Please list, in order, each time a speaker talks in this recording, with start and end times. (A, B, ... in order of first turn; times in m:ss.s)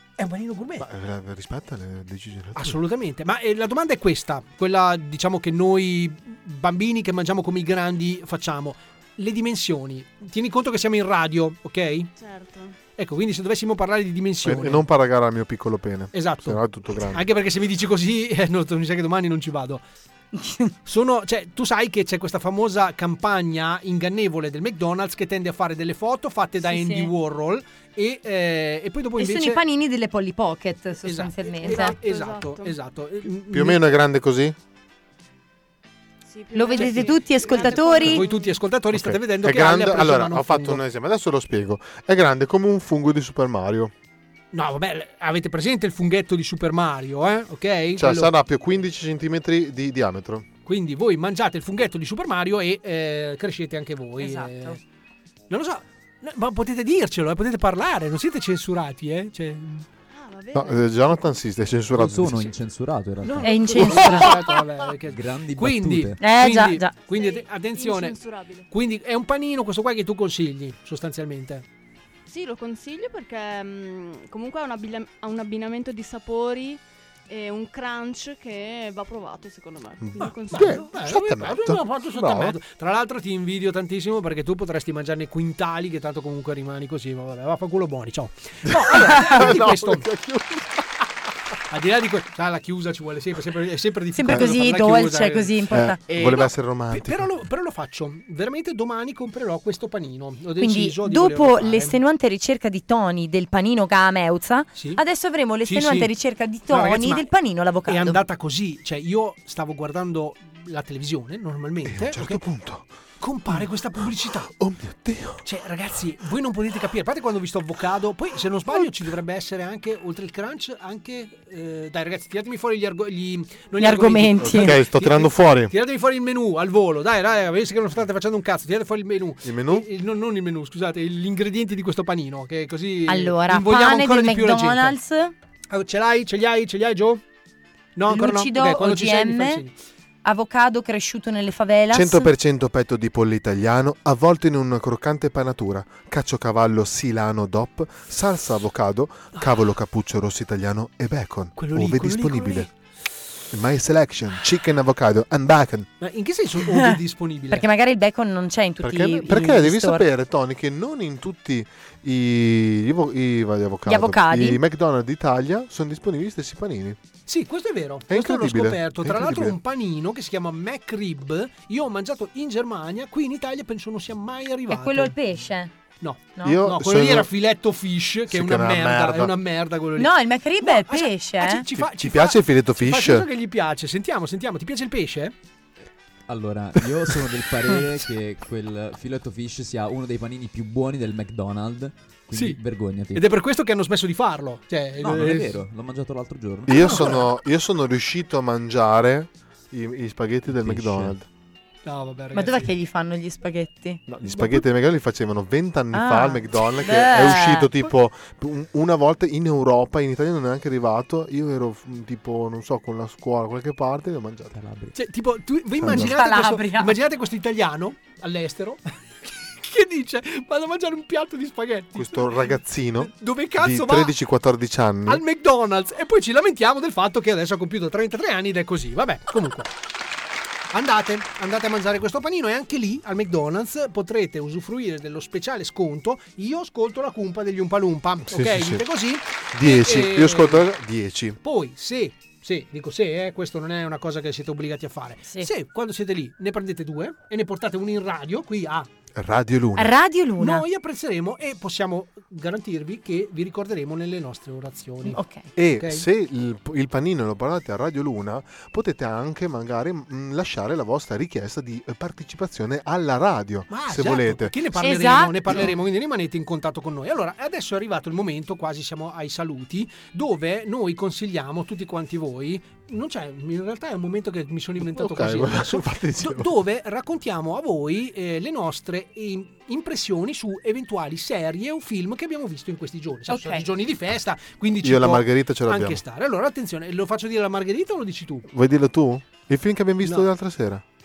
0:00.2-0:00.8 A
0:00.8-0:02.8 B
0:02.6-0:12.1 A
0:12.1-0:12.8 C
0:13.0-0:14.8 A
0:14.4-0:17.2 B
0:16.1-0:19.8 A
0:20.3-0:20.7 D
0:20.8-0:29.6 A
0:26.6-0:27.1 D
0:29.2-0:32.0 D
0:31.0-0:33.8 A
0:31.5-0:32.8 C
0:33.4-0:34.6 B
0:36.2-0:38.6 C
0:36.5-0:38.3 D
0:36.7-0:40.8 A
0:38.9-0:43.9 B
0:44.5-0:48.3 A
0:48.0-0:50.5 B
0:50.6-0:54.8 A
0:54.2-0:54.8 D
0:55.5-0:59.9 A
1:00.1-1:01.2 C
1:00.5-1:02.6 B
1:01.9-1:03.7 E
1:03.2-1:08.2 A
1:03.4-1:04.5 D
1:05.0-1:06.2 E
1:06.2-1:07.1 D
1:07.0-1:08.7 C
1:08.7-1:11.6 A
1:12.3-1:20.9 C
1:20.0-1:22.6 B
1:20.2-1:30.1 A
1:28.7-1:30.8 B
1:31.7-1:42.0 A
1:34.1-1:36.0 D
1:35.7-1:37.3 B
1:40.6-1:48.2 D
1:44.7-1:45.0 A
1:45.6-1:46.1 A
1:46.7-1:47.3 A
1:47.8-1:52.4 A
1:51.8-1:52.9 B
1:53.2-1:54.5 A
1:54.4-1:55.4 B
1:55.4-2:15.0 A
2:03.8-2:04.8 D
2:04.4-2:05.7 B
2:09.4-2:09.9 B
2:13.1-2:15.3 D
2:15.7-2:17.2 A
2:18.0-2:19.7 A
2:18.1-2:19.6 D
2:20.2-2:22.3 D
2:21.9-2:32.7 B
2:31.6-2:32.7 A
2:33.5-2:35.9 B
2:36.0-2:37.6 A
2:36.6-2:40.0 D
2:38.8-2:47.0 B
2:43.8-2:44.6 D
2:47.3-2:55.1 A
2:48.1-2:49.6 B
2:54.7-2:55.7 D
2:56.0-3:05.3 A
2:56.4-2:57.3 B
2:58.3-2:59.3 B
3:00.0-3:01.6 D
3:01.8-3:03.3 B
3:06.3-3:13.3 E
3:12.3-3:12.6 A
3:13.1-3:15.6 A
3:15.0-3:17.0 E
3:16.6-3:21.2 B
3:16.7-3:17.2 A
3:20.5-3:21.2 E
3:21.8-3:22.7 A
3:22.3-3:24.1 D
3:24.1-3:34.6 B
3:25.9-3:27.7 D
3:34.5-3:35.0 E
3:34.9-3:42.4 A
3:35.8-3:36.1 B
3:35.9-3:37.0 D
3:41.9-3:45.2 B
3:43.0-3:44.1 A
3:45.0-3:49.7 A
3:50.7-4:00.7 A
3:58.3-3:58.8 B
3:59.5-4:01.4 B
4:01.4-4:08.9 A
4:09.1-4:10.0 B
4:09.8-4:10.6 D
4:10.4-4:15.2 A
4:15.0-4:15.5 D
4:15.5-4:24.6 B
4:15.8-4:16.0 A
4:23.7-4:48.4 A
4:24.8-4:25.5 D
4:34.8-4:36.5 B
4:43.3-4:43.7 D
4:44.8-4:46.0 B
4:48.5-4:50.8 B
4:50.0-4:50.3 A